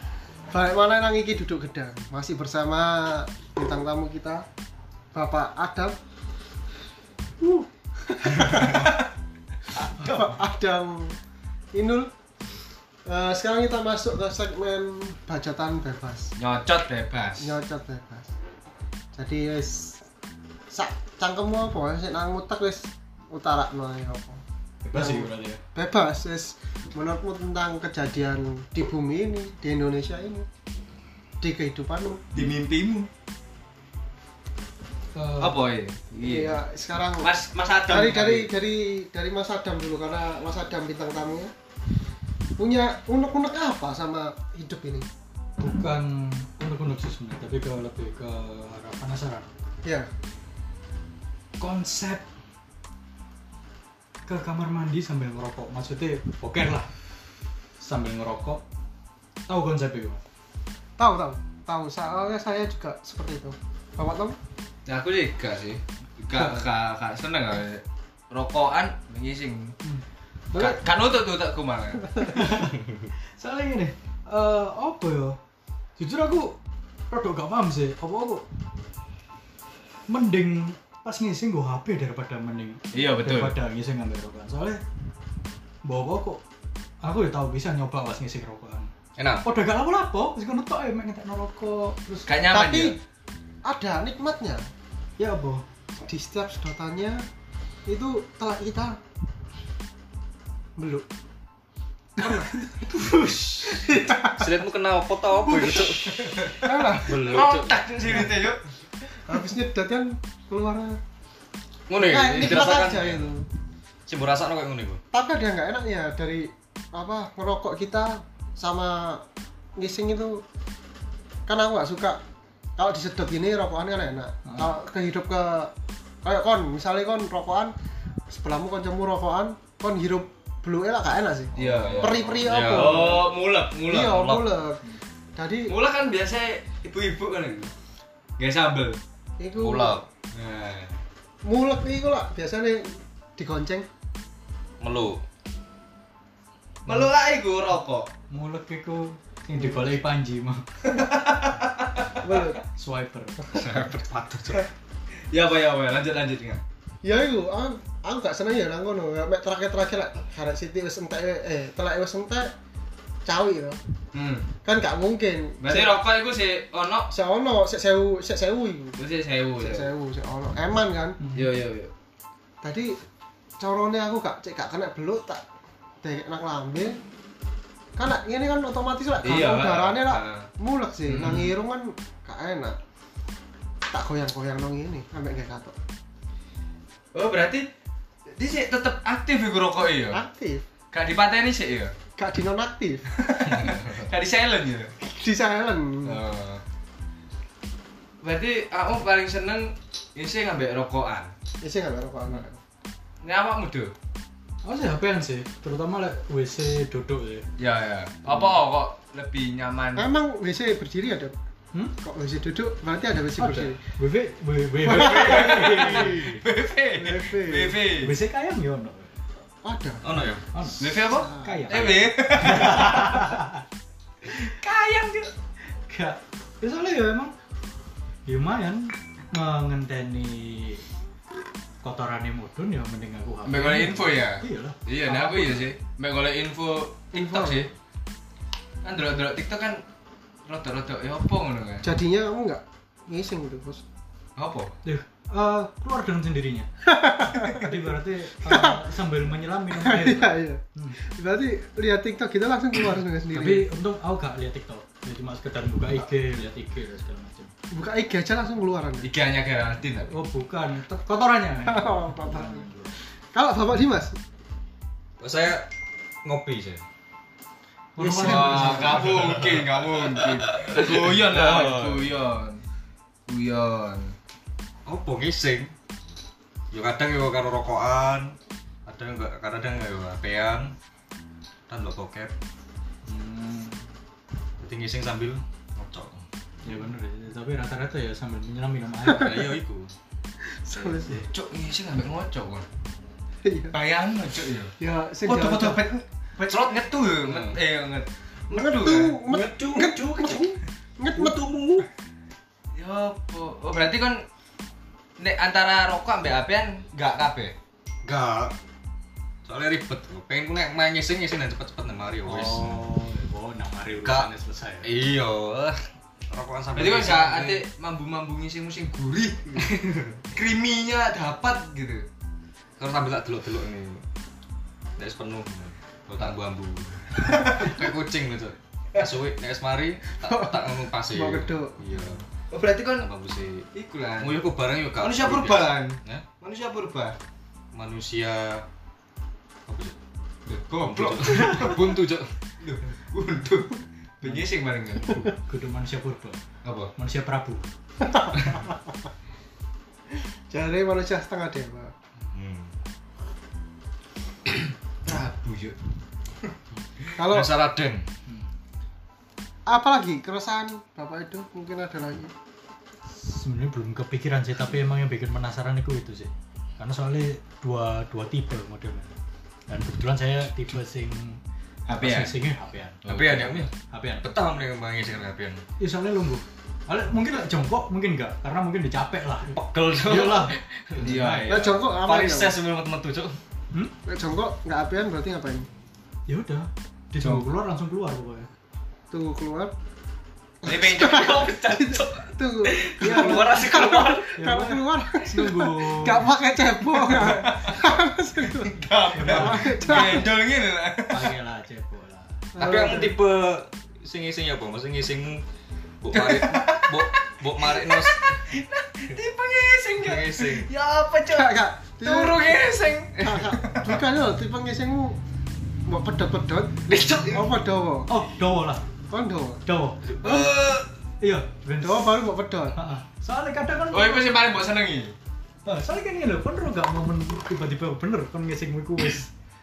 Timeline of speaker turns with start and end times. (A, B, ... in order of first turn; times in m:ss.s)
0:00.5-0:04.4 A
0:05.1-0:06.0 A
0:07.4-0:09.1 A
0:09.7-0:11.2 A
0:11.7-0:12.1 A
0:13.0-0:16.3 A
0:16.4-0:17.5 B
0:17.4-0:18.3 A
0:19.1-0:20.0 A
0:20.7-0:24.4 A
0:24.8-0:25.6 C
0:24.9-0:30.4 A
0:31.4-0:32.4 A
0:32.3-0:33.1 B
0:35.1-0:35.6 C
0:35.4-0:36.6 B
0:36.2-0:37.3 A
0:37.2-0:38.5 B
0:37.9-0:41.5 A
0:42.6-0:45.1 A
0:45.6-0:49.5 C
0:51.6-0:52.2 C
0:54.2-0:56.9 C
0:57.8-0:58.6 C
0:59.5-1:00.2 C
1:01.0-1:04.4 A
1:04.8-1:09.7 B
1:06.3-1:06.6 C
1:10.5-1:10.8 A
1:10.5-1:12.2 B
1:12.2-1:12.8 C
1:13.4-1:15.4 C
1:16.0-1:16.6 C
1:17.1-1:18.4 C
1:20.1-1:24.8 C
1:22.9-1:23.5 B
1:25.8-1:26.4 C
1:27.0-1:28.9 C
1:29.2-1:29.4 D
1:29.4-1:32.4 C
1:32.3-1:33.0 B
1:32.5-1:33.0 A
1:33.6-1:34.6 A
1:35.2-1:35.6 C
1:36.0-1:37.2 A
1:37.8-1:39.0 A
1:40.8-1:41.1 A
1:42.2-1:44.6 A
1:44.1-1:47.8 D
1:45.6-1:45.8 A
1:46.3-1:48.6 B
1:46.6-1:47.1 A
1:48.1-1:48.3 C
1:49.2-1:51.0 A
1:51.9-1:53.4 D
1:51.9-1:53.4 A
1:54.1-1:55.0 D
1:55.1-1:59.2 A
1:59.8-2:00.4 A
2:01.5-2:02.2 A
2:02.8-2:05.7 A
2:06.2-2:07.7 A
2:08.3-2:13.2 A
2:11.6-2:14.4 B
2:11.6-2:13.1 D
2:13.9-2:14.8 A
2:15.4-2:15.7 A
2:15.7-2:17.7 B
2:18.4-2:19.0 B
2:19.4-2:20.0 A
2:19.6-2:20.0 D
2:20.3-2:21.0 B
2:21.4-2:23.9 A
2:24.8-2:25.2 D
2:26.8-2:28.1 B
2:28.3-2:30.6 C
2:29.6-2:29.9 A
2:30.8-2:32.1 B
2:32.2-2:32.6 A
2:32.7-2:33.4 C
2:33.5-2:34.7 D
2:35.3-2:36.6 B
2:37.0-2:42.5 A
2:43.2-2:43.8 A
2:44.1-2:44.5 B
2:44.6-2:46.0 A
2:45.6-2:47.1 B
2:47.1-2:49.0 A
2:49.0-2:49.9 B
2:49.6-2:51.2 A
2:51.2-2:51.5 C
2:51.3-2:51.9 B
2:52.6-2:53.0 A
2:53.6-2:55.4 A
2:56.0-2:57.0 A
2:58.0-3:02.8 A
2:59.2-3:00.5 B
3:01.0-3:01.5 B
3:03.9-3:05.8 A
3:07.1-3:07.7 B
3:08.4-3:10.2 B
3:10.1-3:10.6 A
3:10.9-3:11.9 B
3:12.2-3:13.5 A
3:13.2-3:14.9 B
3:15.0-3:16.2 A
3:16.0-3:16.6 B
3:18.2-3:21.3 B
3:21.6-3:22.6 A
3:23.2-3:23.9 B
3:24.6-3:27.4 C
3:27.6-3:30.1 B
3:28.2-3:28.6 C
3:30.0-3:31.3 A
3:32.0-3:33.8 A
3:33.4-3:36.4 C
3:34.9-3:35.9 A
3:34.9-3:36.4 D
3:35.0-3:38.1 B
3:37.0-3:37.8 A
3:38.0-3:39.2 C
3:39.6-3:40.0 A
3:40.0-3:40.4 D
3:40.5-3:43.6 C
3:40.8-3:43.3 B
3:41.1-3:42.1 A
3:44.3-3:45.3 B
3:45.8-3:47.3 C
3:48.2-3:50.8 C
3:51.8-3:55.7 C
3:53.4-3:57.7 B
3:57.1-3:57.7 A
3:58.8-3:59.8 B
4:00.5-4:01.9 B
4:01.8-4:03.8 A
4:04.4-4:04.7 B
4:04.8-4:11.0 C
4:06.8-4:07.8 A
4:08.4-4:08.8 A
4:09.7-4:13.7 A
4:13.3-4:17.5 C
4:17.7-4:19.1 A
4:19.0-4:20.1 B
4:20.0-4:23.0 C
4:21.6-4:22.7 A
4:23.3-4:24.2 A
4:25.2-4:25.7 D
4:26.2-4:26.8 D
4:28.0-4:29.5 C
4:28.0-4:29.0 A
4:28.1-4:32.6 B
4:30.2-4:32.1 D
4:33.3-4:34.1 B
4:34.8-4:35.7 D
4:36.7-4:40.7 D
4:41.7-4:42.3 D
4:43.0-4:43.9 C
4:44.6-4:46.2 D
4:46.6-4:49.5 C
4:49.0-4:49.9 D
4:50.4-4:51.2 A
4:51.0-4:52.7 B
4:53.4-4:53.7 A
4:53.7-4:54.7 B
4:54.8-4:55.9 A
4:55.2-4:56.6 C
4:56.4-4:59.2 B
4:57.2-4:57.6 D
4:58.5-5:01.4 A
4:59.3-5:00.6 D
5:01.1-5:01.9 D
5:02.7-5:04.2 B
5:05.2-5:07.5 B
5:08.0-5:08.5 D
5:09.4-5:12.8 D
5:12.2-5:14.9 C
5:14.0-5:14.3 D
5:14.8-5:17.6 D
5:16.7-5:22.0 B
5:22.8-5:24.0 D
5:25.0-5:32.2 D
5:27.3-5:27.7 B
5:30.2-5:32.1 A
5:32.5-5:33.1 B
5:33.0-5:33.6 D
5:33.7-5:34.4 B
5:34.2-5:36.2 D
5:35.0-5:37.2 B
5:37.7-5:38.6 D
5:39.7-5:39.9 D
5:40.4-5:42.0 B
5:40.8-5:42.3 D
5:41.3-5:41.7 C
5:42.6-5:45.2 B
5:44.2-5:44.5 C
5:45.1-5:46.4 C
5:46.6-5:46.9 B
5:47.0-5:47.6 C
5:48.0-5:48.4 A
5:50.5-5:51.9 A
5:52.2-5:52.7 D
5:54.5-5:55.7 B
5:57.2-5:57.5 A
5:57.2-5:58.0 D
5:59.7-6:02.3 A
6:03.1-6:09.2 C
6:09.7-6:14.3 C
6:11.9-6:12.4 B
6:13.0-6:15.6 D
6:13.0-6:13.5 B
6:15.8-6:21.6 C
6:19.5-6:21.1 D
6:21.0-6:21.8 B
6:21.5-6:22.6 A
6:22.0-6:23.4 D
6:24.0-6:25.7 A
6:26.3-6:28.5 C
6:27.2-6:27.5 B
6:29.1-6:29.7 A
6:30.6-6:40.3 A
6:30.6-6:32.2 B
6:31.0-6:32.1 D
6:32.6-6:34.4 D
6:33.0-6:33.4 C
6:33.0-6:33.3 B
6:34.4-6:36.3 C
6:37.1-6:37.9 B
6:38.5-6:41.3 B
6:39.1-6:40.2 C
6:41.1-6:42.4 C
6:42.5-6:43.2 A
6:42.6-6:45.4 D
6:46.0-6:48.3 D
6:46.1-6:54.0 B
6:50.0-6:50.7 D
6:51.3-6:52.5 A
6:53.2-6:55.2 A
6:55.8-6:56.8 A
6:56.9-6:57.5 B
6:57.3-6:58.1 A
6:58.1-6:58.8 C
6:59.1-6:59.6 A
6:59.6-7:00.3 C
7:00.2-7:00.5 A
7:00.2-7:00.8 B
7:00.3-7:00.6 D
7:01.2-7:04.3 C
7:01.8-7:02.8 A
7:03.9-7:05.1 B
7:05.6-7:09.3 C